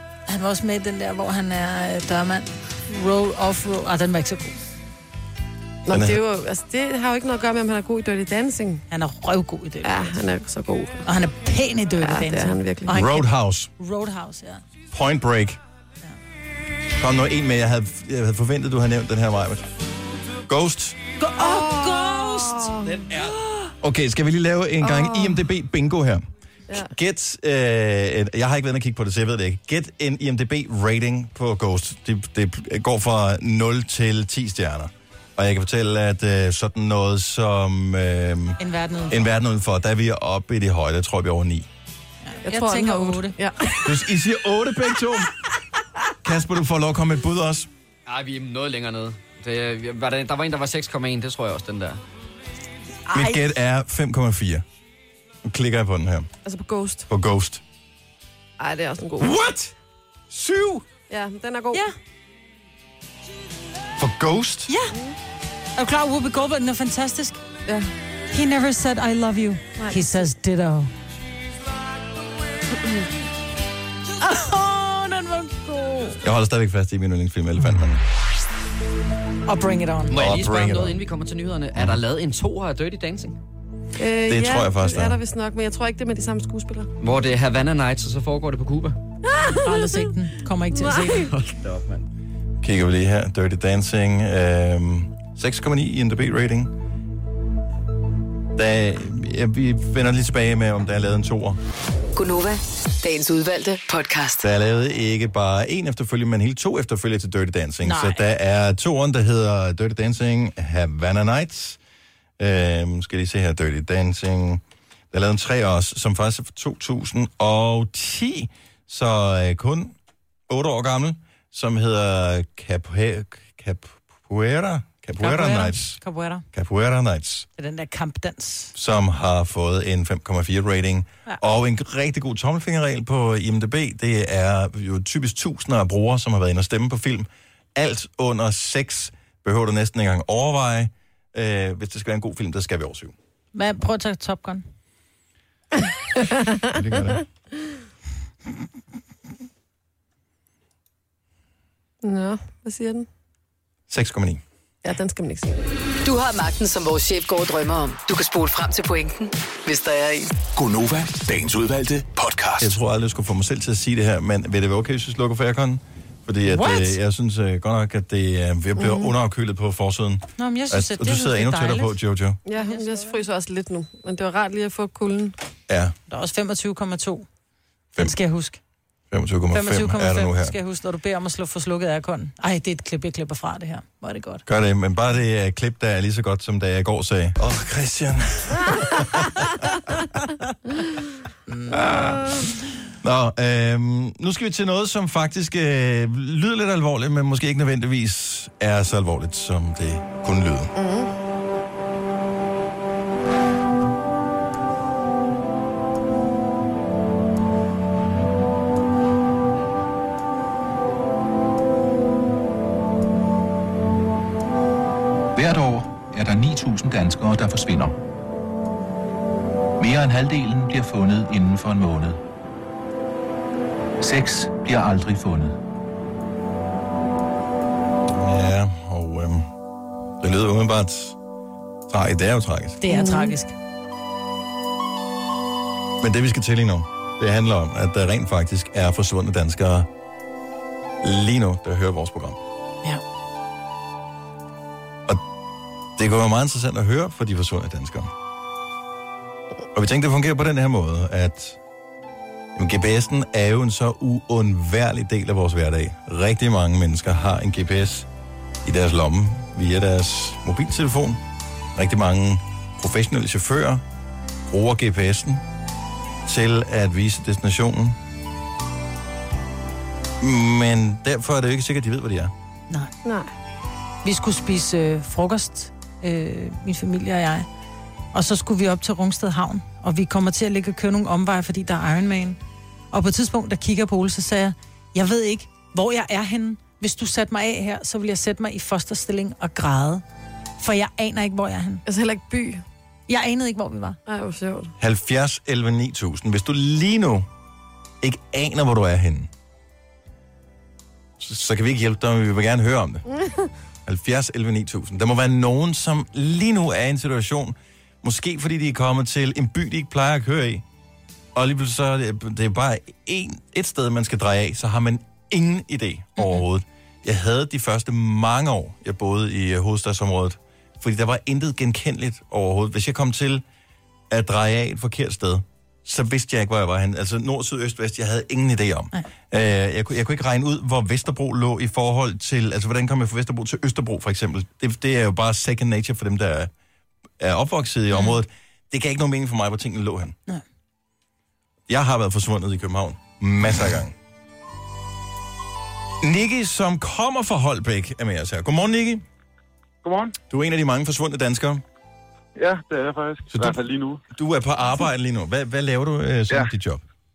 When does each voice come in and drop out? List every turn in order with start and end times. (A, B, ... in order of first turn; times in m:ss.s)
0:00.3-0:04.6 A
0:05.8-0:08.8 B
0:05.9-0:06.2 C
0:08.9-0:10.1 A
0:09.8-0:11.0 B
0:11.0-0:14.6 A
0:12.0-0:13.0 B
0:12.9-0:13.7 C
0:14.9-0:15.6 C
0:17.0-0:19.7 C
0:20.5-0:21.0 C
0:21.2-0:23.7 A
0:21.4-0:23.0 B
0:23.1-0:38.6 C
0:24.8-0:25.4 B
0:38.6-0:39.3 A
0:39.1-0:41.7 C
0:42.2-0:43.4 A
0:42.4-0:43.9 B
0:43.8-0:45.3 C
0:46.2-0:47.7 C
0:48.1-0:52.0 D
0:53.1-0:53.4 A
0:53.1-0:54.6 C
0:55.4-0:56.3 C
0:56.4-0:57.1 B
0:57.1-0:57.6 C
0:58.6-0:59.3 B
0:59.2-0:59.7 C
1:00.3-1:00.8 C
1:01.1-1:01.9 B
1:04.0-1:04.7 C
1:04.7-1:04.9 A
1:05.8-1:07.4 A
1:08.3-1:10.9 A
1:09.8-1:10.2 B
1:14.2-1:15.7 A
1:15.7-1:16.2 B
1:16.2-1:18.0 C
1:19.5-1:20.1 A
1:20.1-1:23.4 D
1:20.1-1:21.0 C
1:24.0-1:26.9 B
1:24.3-1:25.2 C
1:27.0-1:29.0 D
1:29.3-1:30.0 B
1:29.6-1:31.3 A
1:30.7-1:31.3 B
1:31.3-1:32.0 D
1:32.6-1:36.7 C
1:38.6-1:41.6 C
1:42.2-1:44.4 E
1:44.4-1:51.8 C
1:47.8-1:48.2 A
1:52.4-1:59.9 C
2:00.5-2:06.0 C
2:05.2-2:06.4 A
2:06.5-2:07.5 C
2:07.6-2:08.7 A
2:08.7-2:23.1 C
2:23.5-2:24.6 A
2:26.2-2:26.8 B
2:26.7-2:27.2 C
2:32.0-2:33.1 B
2:33.9-2:34.4 C
2:34.8-2:35.6 B
2:36.0-2:40.3 E
2:40.5-2:42.8 F
2:42.6-2:52.4 C
2:46.4-2:47.0 A
2:48.8-2:49.1 B
2:50.4-2:52.0 A
2:52.4-2:55.3 B
2:52.5-2:53.2 A
2:55.7-2:55.9 C
2:56.1-2:57.3 A
2:58.0-2:58.6 A
2:59.1-3:00.6 C
2:59.5-3:04.4 A
3:04.4-3:09.6 C
3:11.5-3:11.8 A
3:11.7-3:12.4 C
3:13.0-3:20.7 C
3:20.8-3:21.1 B
3:35.4-3:37.9 G
3:39.8-3:42.2 G
3:44.0-3:45.6 G
3:48.1-3:49.5 C
3:50.2-3:51.2 C
3:51.9-3:52.8 C
3:52.8-3:53.5 A
3:52.9-3:53.4 B
3:56.0-3:59.9 C
4:01.0-4:02.4 C
4:06.0-4:08.1 C
4:09.7-4:11.6 C
4:12.6-4:18.1 C
4:18.6-4:21.2 C
4:21.8-4:23.8 C
4:24.5-4:25.4 C
4:26.2-4:28.0 C
4:30.2-4:32.3 C
4:33.0-4:33.3 B
4:34.0-4:37.5 A
4:38.1-4:42.4 A
4:42.9-4:50.0 A
4:50.6-4:51.8 A
4:51.8-4:52.6 B
4:53.1-4:54.0 A
4:54.0-4:54.7 B
4:54.8-4:57.3 C
4:58.0-4:59.3 C
5:01.2-5:03.0 C
5:03.1-5:03.5 B
5:03.8-5:10.6 C
5:11.3-5:23.4 C
5:16.2-5:16.4 A
5:24.1-5:36.5 C
5:37.2-5:40.1 C
5:37.9-5:38.2 A
5:41.7-5:43.9 C
5:46.0-5:49.0 C
5:49.8-5:50.2 H
5:50.3-5:51.6 C
5:52.4-5:54.0 H
5:53.3-5:56.8 C